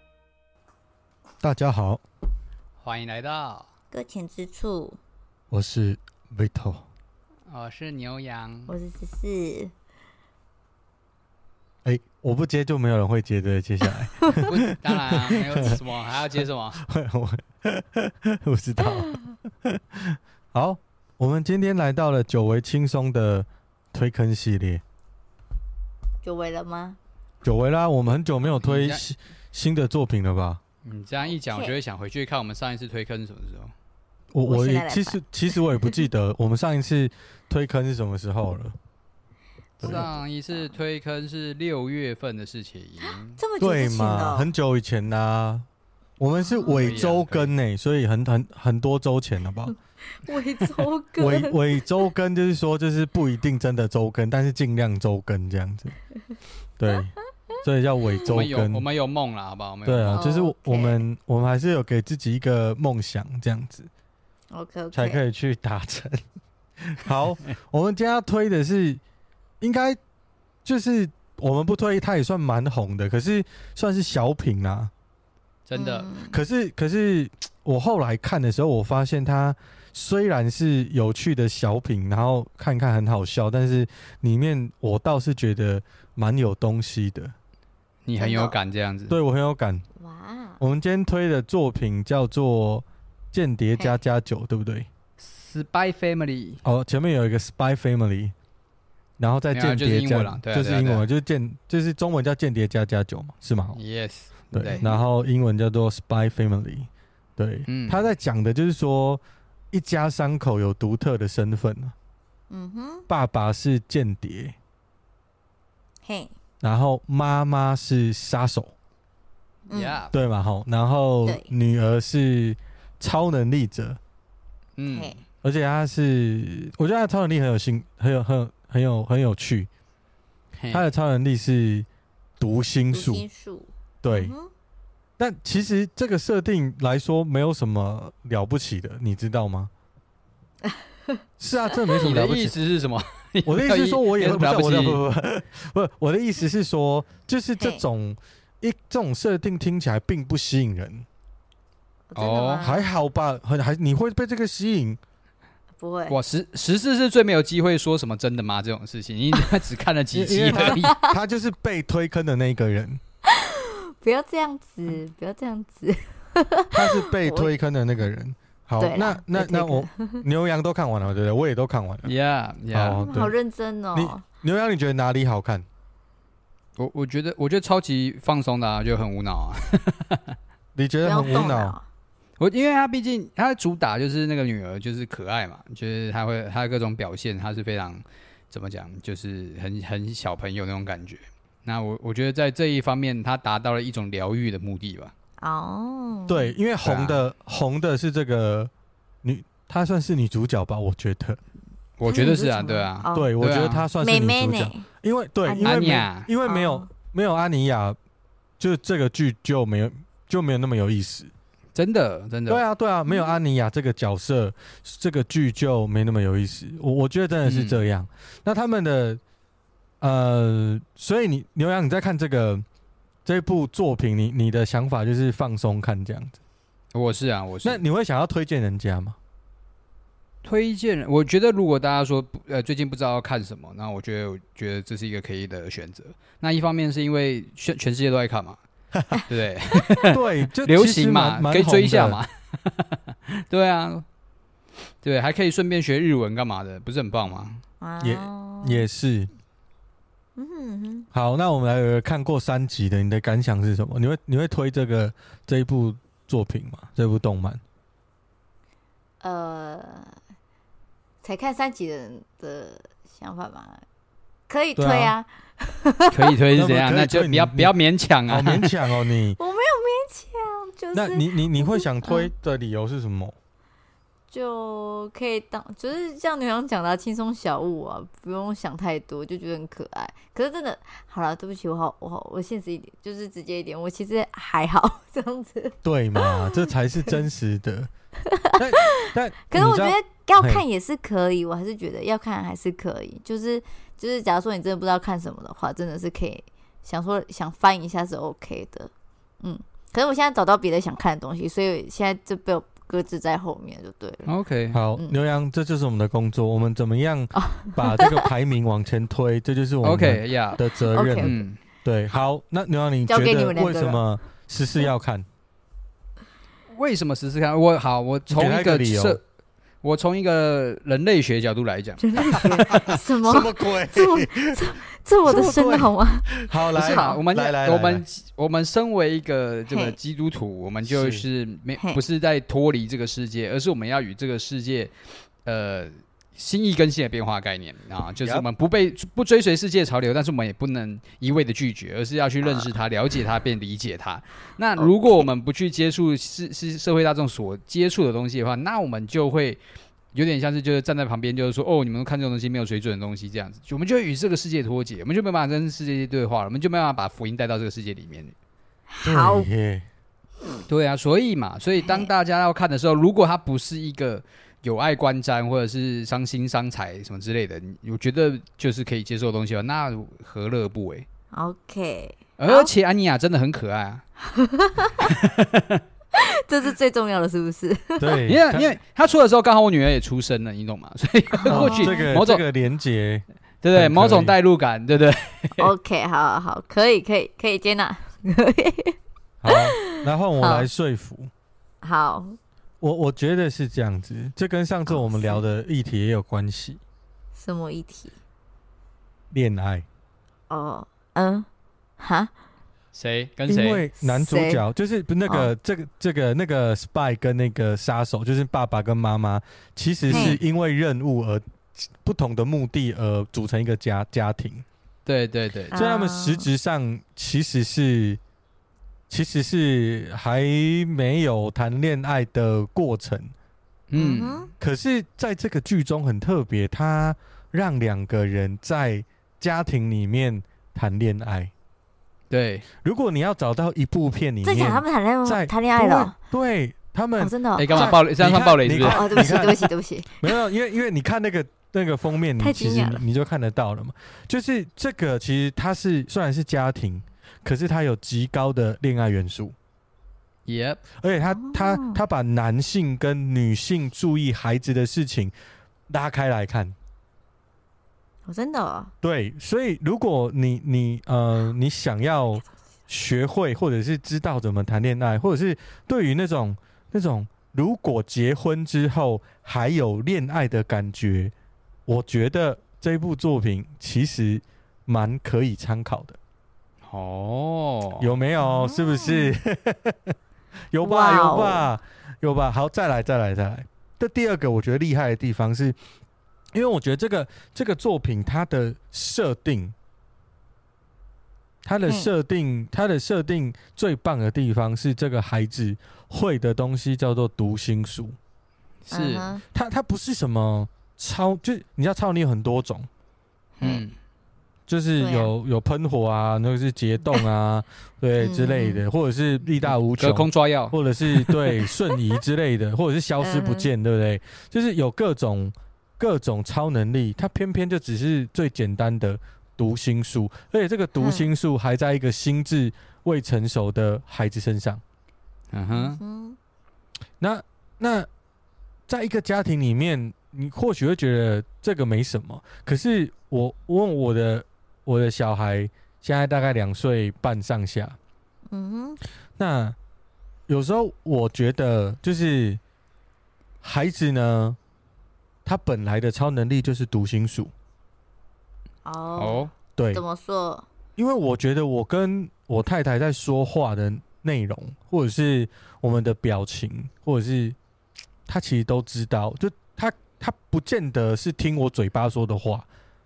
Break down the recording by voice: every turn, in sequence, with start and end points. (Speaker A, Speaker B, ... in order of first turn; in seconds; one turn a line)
Speaker A: 1.4-2.0
Speaker B: 2.8-3.7
Speaker C: 3.9-5.0
Speaker A: 5.5-6.8
Speaker B: 7.5-8.7
Speaker C: 8.7-9.7
Speaker A: 11.8-15.8
Speaker C: 14.2-14.5
Speaker B: 14.5-16.8
Speaker A: 16.8-24.8
Speaker C: 26.2-27.0
Speaker A: 27.4-30.6
Speaker B: 28.6-29.0
Speaker B: 30.8-33.7
Speaker C: 31.5-31.7
Speaker A: 34.3-38.8
Speaker C: 34.5-35.2
Speaker C: 35.8-36.0
Speaker C: 39.8-40.7
Speaker A: 39.8-40.1
Speaker B: 39.8-43.4
Speaker C: 43.0-44.5
Speaker A: 43.6-45.7
Speaker A: 46.2-49.7
Speaker C: 46.4-47.0
Speaker B: 46.7-47.5
Speaker C: 50.2-51.6
Speaker A: 50.6-56.0
Speaker A: 56.8-58.9
Speaker B: 58.3-60.2
Speaker A: 59.9-63.9
Speaker C: 60.1-61.0
Speaker C: 64.5-65.2
Speaker A: 64.9-66.2
Speaker A: 66.8-69.0
Speaker A: 69.6-70.0
Speaker A: 70.7-74.9
Speaker B: 75.7-76.1
Speaker C: 75.8-76.4
Speaker A: 76.3-87.3
Speaker B: 88.0-89.2
Speaker C: 88.2-88.6
Speaker A: 89.1-89.8
Speaker C: 90.0-90.6
Speaker A: 90.6-94.9
Speaker B: 95.2-96.6
Speaker A: 96.6-98.3
Speaker A: 99.2-103.8
Speaker B: 99.5-101.0
Speaker B: 103.8-104.9
Speaker A: 104.5-109.2
Speaker C: 104.7-105.0
Speaker B: 107.7-108.0
Speaker A: 109.7-111.9
Speaker C: 112.5-113.1
Speaker A: 113.1-114.6
Speaker C: 116.0-116.3
Speaker A: 116.6-118.8
Speaker C: 119.7-120.0
Speaker B: 119.7-120.1
Speaker A: 120.1-124.0
Speaker C: 121.3-121.5
Speaker B: 124.8-125.2
Speaker C: 124.9-125.2
Speaker A: 125.4-129.7
Speaker B: 130.6-130.8
Speaker A: 130.7-131.9
Speaker A: 132.4-133.2
Speaker C: 132.9-134.5
Speaker A: 134.0-134.3
Speaker A: 135.2-139.7
Speaker C: 140.6-141.2
Speaker A: 141.4-142.6
Speaker B: 142.0-145.0
Speaker A: 143.5-151.1
Speaker C: 147.6-147.8
Speaker C: 152.1-152.9
Speaker B: 152.2-152.7
Speaker A: 152.6-155.0
Speaker C: 155.8-156.2
Speaker B: 156.1-161.0
Speaker A: 160.1-163.0
Speaker C: 160.5-161.1
Speaker C: 163.3-167.5
Speaker A: 166.7-172.1
Speaker C: 168.8-170.2
Speaker B: 172.1-173.1
Speaker A: 172.7-173.4
Speaker C: 173.0-174.2
Speaker A: 173.9-175.7
Speaker B: 176.8-180.4
Speaker A: 180.8-181.8
Speaker C: 181.0-181.8
Speaker B: 182.4-195.1
Speaker C: 195.4-196.6
Speaker A: 196.3-198.7
Speaker B: 196.8-197.2
Speaker A: 199.2-201.4
Speaker B: 202.0-203.9
Speaker C: 202.1-203.3
Speaker A: 203.1-208.0
Speaker C: 204.0-204.9
Speaker C: 205.4-206.9
Speaker B: 205.6-206.3
Speaker A: 208.6-211.3
Speaker B: 211.8-212.6
Speaker A: 212.5-219.2
Speaker C: 213.1-213.4
Speaker B: 217.4-217.8
Speaker A: 220.0-222.7
Speaker A: 223.2-226.4
Speaker B: 226.9-227.8
Speaker A: 227.6-229.2
Speaker B: 230.4-238.6
Speaker B: 239.3-244.1
Speaker A: 240.0-242.2
Speaker B: 245.0-247.6
Speaker C: 247.8-248.8
Speaker A: 248.0-249.3
Speaker C: 250.4-251.1
Speaker A: 251.1-257.6
Speaker C: 259.2-260.1
Speaker C: 261.2-263.8
Speaker C: 264.5-266.3
Speaker A: 264.8-265.1
Speaker B: 266.1-268.7
Speaker A: 266.5-267.7
Speaker A: 268.3-269.4
Speaker C: 269.4-272.3
Speaker A: 270.9-273.4
Speaker C: 274.3-286.6
Speaker A: 285.8-287.9
Speaker C: 288.3-304.3
Speaker A: 288.6-290.6
Speaker B: 304.3-304.8
Speaker A: 304.7-315.3
Speaker C: 307.4-308.2
Speaker B: 309.8-310.6
Speaker C: 310.9-311.3
Speaker B: 311.2-311.6
Speaker C: 313.1-314.0
Speaker B: 316.7-319.2
Speaker A: 318.3-319.2
Speaker B: 319.8-323.0
Speaker C: 322.0-327.2
Speaker A: 322.7-328.0
Speaker B: 326.8-334.9
Speaker C: 329.7-330.0
Speaker A: 330.9-331.2
Speaker B: 335.4-349.6
Speaker A: 338.2-338.5
Speaker B: 350.1-358.3
Speaker C: 358.9-359.5
Speaker A: 359.0-359.9
Speaker B: 360.7-371.1
Speaker C: 361.8-362.1
Speaker C: 371.3-372.7
Speaker B: 372.4-374.0
Speaker C: 374.2-375.1
Speaker B: 375.0-375.8
Speaker C: 376.1-378.2
Speaker A: 378.0-378.8
Speaker B: 378.3-382.4
Speaker C: 381.3-382.1
Speaker A: 381.5-384.4
Speaker B: 383.6-385.7
Speaker C: 385.6-389.0
Speaker A: 389.4-391.3
Speaker C: 389.5-390.7
Speaker C: 391.8-392.4
Speaker A: 392.8-396.8
Speaker C: 394.9-395.4
Speaker C: 397.4-398.2
Speaker A: 399.3-399.9
Speaker C: 400.5-401.5
Speaker C: 402.0-402.3
Speaker B: 402.9-403.9
Speaker A: 403.5-414.6
Speaker C: 404.0-404.6
Speaker C: 405.3-405.5
Speaker B: 410.1-410.4
Speaker C: 410.1-410.4
Speaker B: 415.1-415.8
Speaker C: 415.7-416.5
Speaker A: 415.7-418.2
Speaker A: 419.1-423.3
Speaker B: 423.9-424.4
Speaker C: 424.0-424.5
Speaker A: 424.6-431.5
Speaker B: 432.3-432.7
Speaker A: 432.8-449.6
Speaker C: 434.4-436.1
Speaker C: 437.2-438.0
Speaker B: 437.6-439.3
Speaker C: 438.8-440.3
Speaker C: 442.4-443.0
Speaker B: 450.5-450.8
Speaker A: 451.0-455.3
Speaker C: 451.3-452.0
Speaker A: 455.9-456.8
Speaker C: 458.3-458.9
Speaker A: 459.0-471.3
Speaker A: 471.9-476.2
Speaker B: 476.9-478.1
Speaker A: 478.0-480.1
Speaker C: 478.4-479.4
Speaker A: 480.7-485.8
Speaker C: 480.8-481.7
Speaker A: 486.5-489.8
Speaker A: 491.6-498.2
Speaker B: 498.9-499.3
Speaker C: 498.9-499.4
Speaker A: 499.5-502.9
Speaker C: 503.6-503.9
Speaker B: 503.6-503.9
Speaker A: 504.7-524.8
Speaker C: 505.0-505.3
Speaker C: 508.2-508.8
Speaker B: 509.7-511.6
Speaker C: 513.2-513.7
Speaker C: 521.0-521.3
Speaker B: 525.5-526.0
Speaker C: 525.7-526.4
Speaker A: 527.2-528.1
Speaker A: 528.9-538.0
Speaker C: 538.5-539.0
Speaker A: 539.4-539.8
Speaker A: 540.5-542.6
Speaker A: 543.6-544.6
Speaker A: 545.5-547.5
Speaker C: 548.9-550.7
Speaker B: 549.2-549.5
Speaker A: 549.8-550.0
Speaker A: 551.0-557.6
Speaker A: 558.3-562.7